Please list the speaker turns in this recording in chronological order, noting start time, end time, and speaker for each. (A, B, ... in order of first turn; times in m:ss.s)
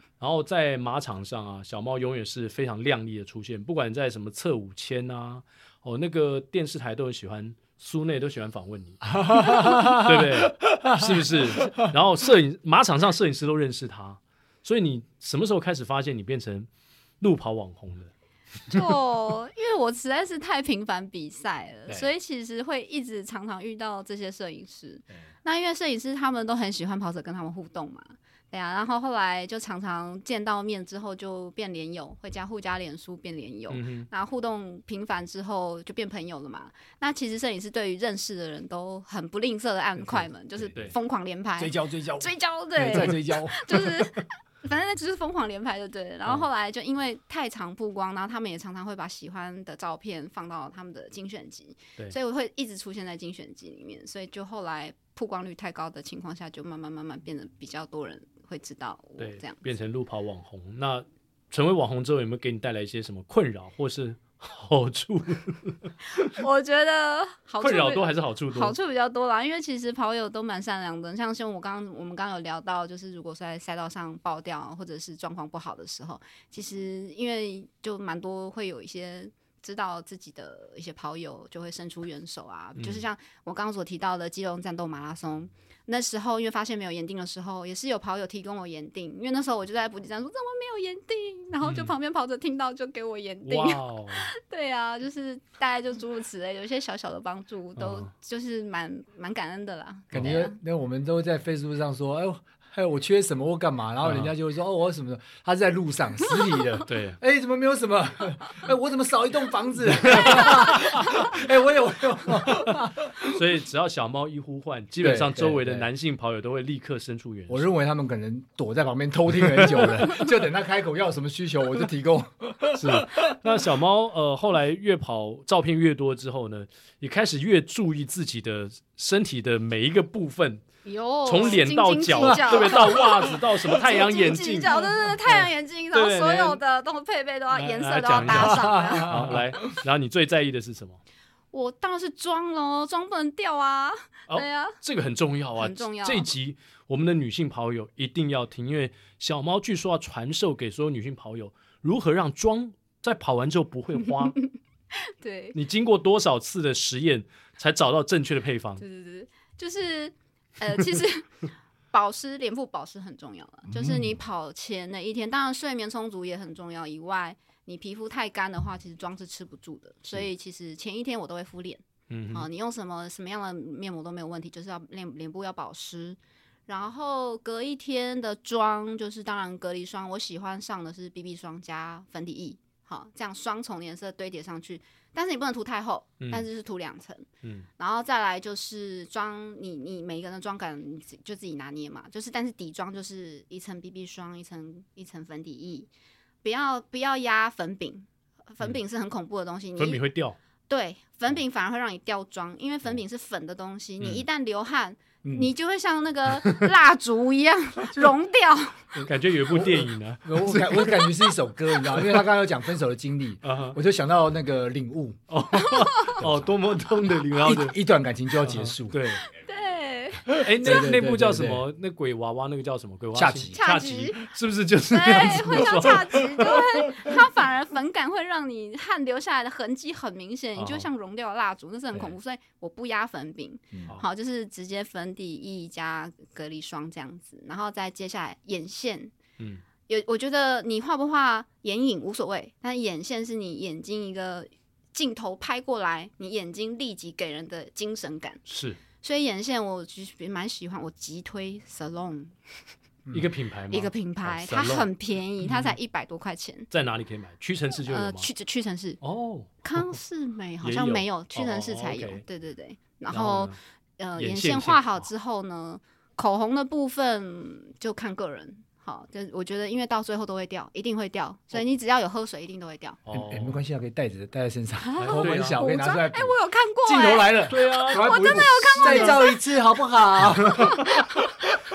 0:00.2-0:16.7 A
0:09.2-0:11.9 B
0:17.2-0:18.1 A
0:18.7-0:59.6 C
0:33.7-0:34.1 A
0:40.6-0:40.9 B
0:41.6-0:43.9 B
0:59.2-1:06.3 A
1:06.1-1:40.6 C
1:07.6-1:08.8 A
1:22.8-1:23.0 A
1:31.6-1:31.9 A
1:33.4-1:34.3 A
1:37.8-1:38.1 A
1:40.1-1:53.2 B
1:40.1-1:40.4 A
1:44.0-1:44.3 A
1:46.9-1:47.2 A
1:50.0-1:51.0 A
1:52.5-1:57.7 A
1:55.0-1:55.9 B
1:57.5-2:03.4 B
2:02.7-2:10.6 A
2:10.8-2:19.1 C
2:11.2-2:16.6 A
2:12.2-2:13.0 B
2:17.5-2:21.0 A
2:18.3-2:19.8 B
2:21.5-2:24.8 C
2:24.3-2:34.4 A
2:25.6-2:26.3 C
2:34.1-2:34.5 C
2:35.0-2:35.6 C
2:35.6-2:38.8 A
2:38.8-2:41.4 C
2:41.9-3:07.3 C
2:43.7-2:44.2 B
2:52.1-2:52.5 A
3:06.2-3:06.5 A
3:07.8-3:15.9 C
3:16.4-3:20.0 C
3:19.8-3:20.4 A
3:20.7-3:28.9 C
3:24.0-3:24.2 A
3:25.2-3:25.5 B
3:28.9-3:35.2 B
3:29.1-3:31.3 A
3:33.4-3:33.8 A
3:35.3-3:37.8 A
3:35.6-3:36.2 C
3:36.2-3:36.5 B
3:37.4-3:39.0 B
3:38.4-3:39.2 A
3:39.3-3:40.4 C
3:40.3-3:41.6 B
3:40.4-3:47.2 A
3:43.2-3:43.6 B
3:43.6-3:44.2 C
3:44.9-3:59.1 C
3:50.6-3:50.9 A
3:59.9-4:08.4 C
4:08.5-4:08.8 A
4:09.0-4:12.4 C
4:13.1-4:14.9 A
4:13.7-4:16.7 C
4:15.4-4:15.8 A
4:16.7-4:18.3 A
4:17.8-4:19.0 C
4:19.0-4:20.0 A
4:19.6-4:33.0 C
4:20.6-4:22.2 A
4:23.1-4:23.6 A
4:24.2-4:25.1 A
4:33.1-4:33.6 A
4:33.1-4:41.2 B
4:34.8-4:39.3 C
4:35.0-4:35.6 A
4:37.5-4:39.2 A
4:40.4-4:40.7 A